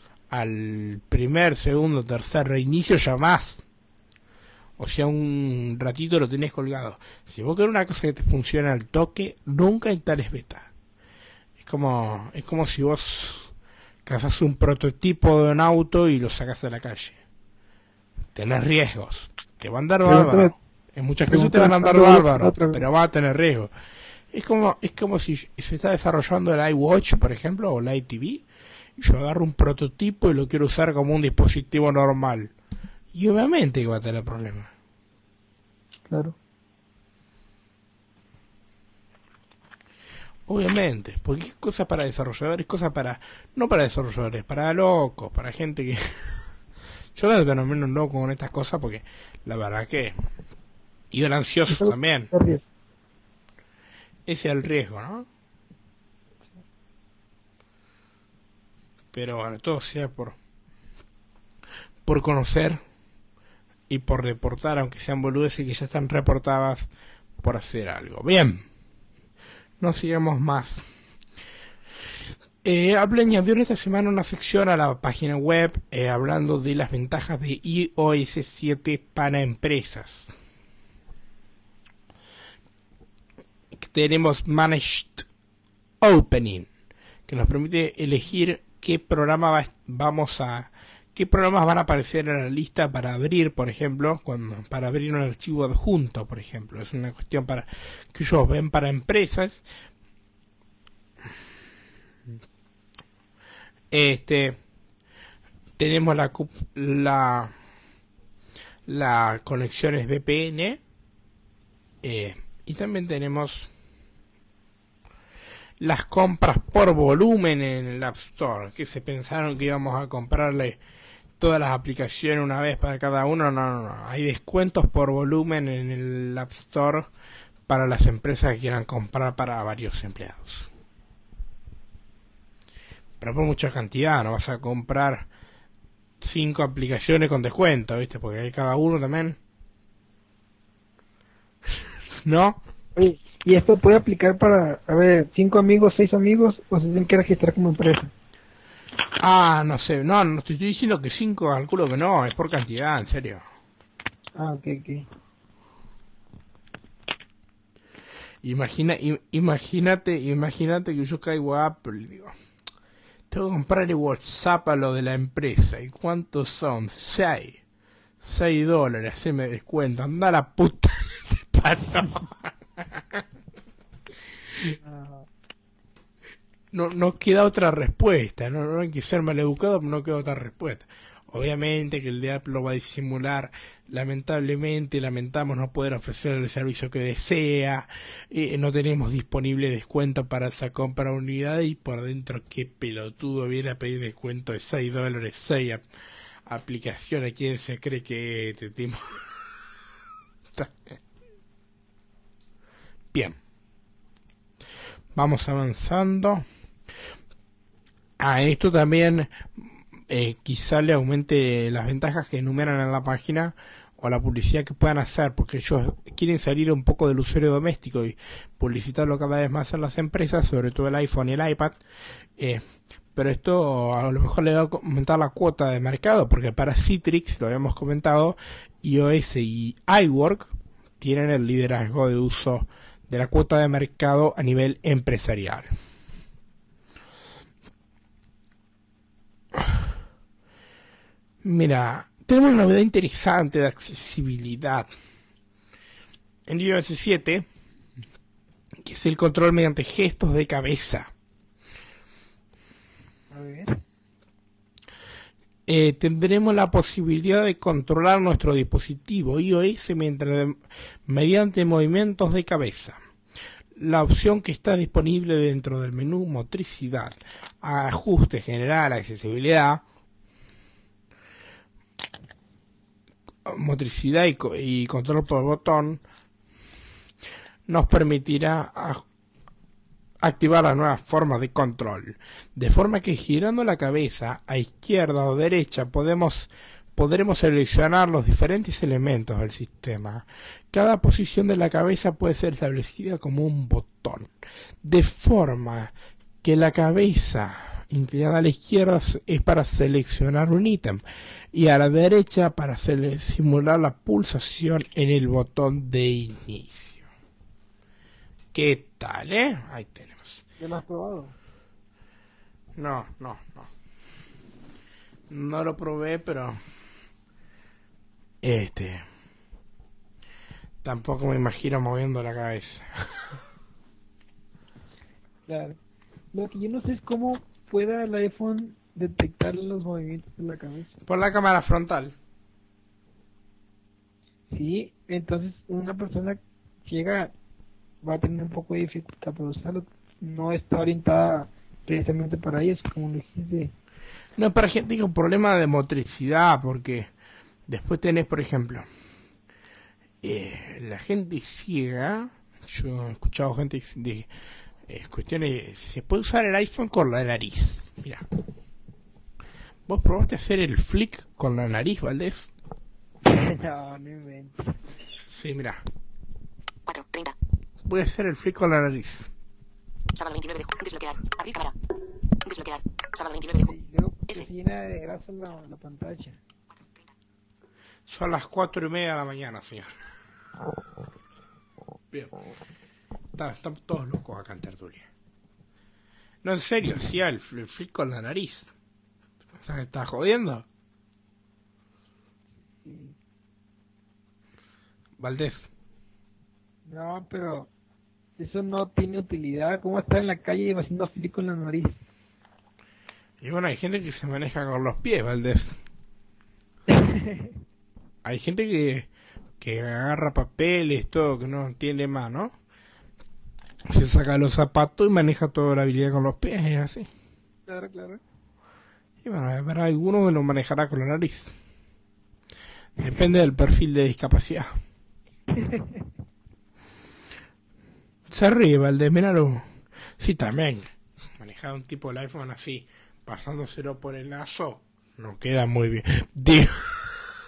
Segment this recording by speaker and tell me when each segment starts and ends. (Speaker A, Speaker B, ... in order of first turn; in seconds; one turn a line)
Speaker A: 0.3-3.6
Speaker A: 4.8-10.7
Speaker A: 11.6-13.5
Speaker A: 14.0-17.2
Speaker A: 18.3-23.7
Speaker B: 20.0-20.5
Speaker B: 21.2-22.8
Speaker A: 24.3-28.4
Speaker A: 29.0-32.5
Speaker A: 33.1-34.7
Speaker B: 36.1-36.4
Speaker A: 40.5-46.4
Speaker A: 47.1-50.1
Speaker A: 51.1-52.3
Speaker B: 51.7-52.6
Speaker A: 54.3-55.2
Speaker A: 59.1-60.4
Speaker A: 62.0-62.8
Speaker A: 63.9-68.7
Speaker A: 69.8-70.9
Speaker A: 72.6-80.3
Speaker A: 83.7-85.3
Speaker A: 86.0-86.7
Speaker A: 87.3-99.7
Speaker A: 103.9-104.6
Speaker A: 105.8-107.5
Speaker A: 108.8-110.8
Speaker A: 112.0-113.7
Speaker A: 115.8-120.8
Speaker A: 121.4-127.1
Speaker A: 127.7-130.7
Speaker A: 133.2-135.3
Speaker A: 136.2-139.4
Speaker A: 142.2-142.6
Speaker B: 142.9-148.1
Speaker A: 149.2-153.4
Speaker B: 154.3-155.1
Speaker A: 158.4-162.3
Speaker A: 163.3-167.6
Speaker A: 168.2-173.2
Speaker B: 174.6-175.3
Speaker A: 176.7-195.8
Speaker A: 196.4-199.2
Speaker A: 200.5-201.0
Speaker A: 203.1-203.4
Speaker A: 205.1-206.4
Speaker A: 208.2-221.8
Speaker A: 222.4-222.6
Speaker A: 223.1-235.7
Speaker A: 239.5-239.8
Speaker A: 241.4-244.9
Speaker A: 246.4-247.4
Speaker A: 248.8-251.1
Speaker B: 253.3-253.8
Speaker A: 255.7-263.0
Speaker A: 263.7-269.8
Speaker A: 273.4-276.0
Speaker A: 277.7-279.0
Speaker A: 280.2-307.0
Speaker A: 308.5-310.4
Speaker B: 310.6-311.3
Speaker A: 312.8-313.7
Speaker A: 315.3-316.6
Speaker A: 318.4-319.0
Speaker A: 320.8-323.4
Speaker B: 325.5-325.8
Speaker B: 326.3-331.0
Speaker A: 331.1-332.1
Speaker B: 334.5-337.3
Speaker B: 338.0-343.7
Speaker A: 344.4-347.1
Speaker A: 347.7-348.9
Speaker A: 350.2-354.3
Speaker A: 354.9-358.2
Speaker A: 359.9-362.5
Speaker B: 363.2-364.7
Speaker A: 365.3-365.8
Speaker C: 366.9-367.4
Speaker A: 367.8-369.3
Speaker C: 370.1-371.8
Speaker C: 372.4-373.7
Speaker B: 373.5-376.4
Speaker C: 376.7-377.1
Speaker A: 378.1-379.9
Speaker A: 383.3-385.1
Speaker A: 386.4-388.7
Speaker A: 389.5-390.6
Speaker B: 392.8-393.1
Speaker A: 395.2-395.7
Speaker B: 396.9-397.7
Speaker B: 398.4-402.0
Speaker A: 403.4-405.8
Speaker B: 406.9-407.5
Speaker A: 408.2-409.1
Speaker A: 409.6-412.5
Speaker A: 413.9-417.1
Speaker B: 417.7-418.2
Speaker A: 419.2-421.6
Speaker A: 423.0-424.7
Speaker B: 425.5-426.1
Speaker A: 428.3-429.6
Speaker A: 430.2-437.1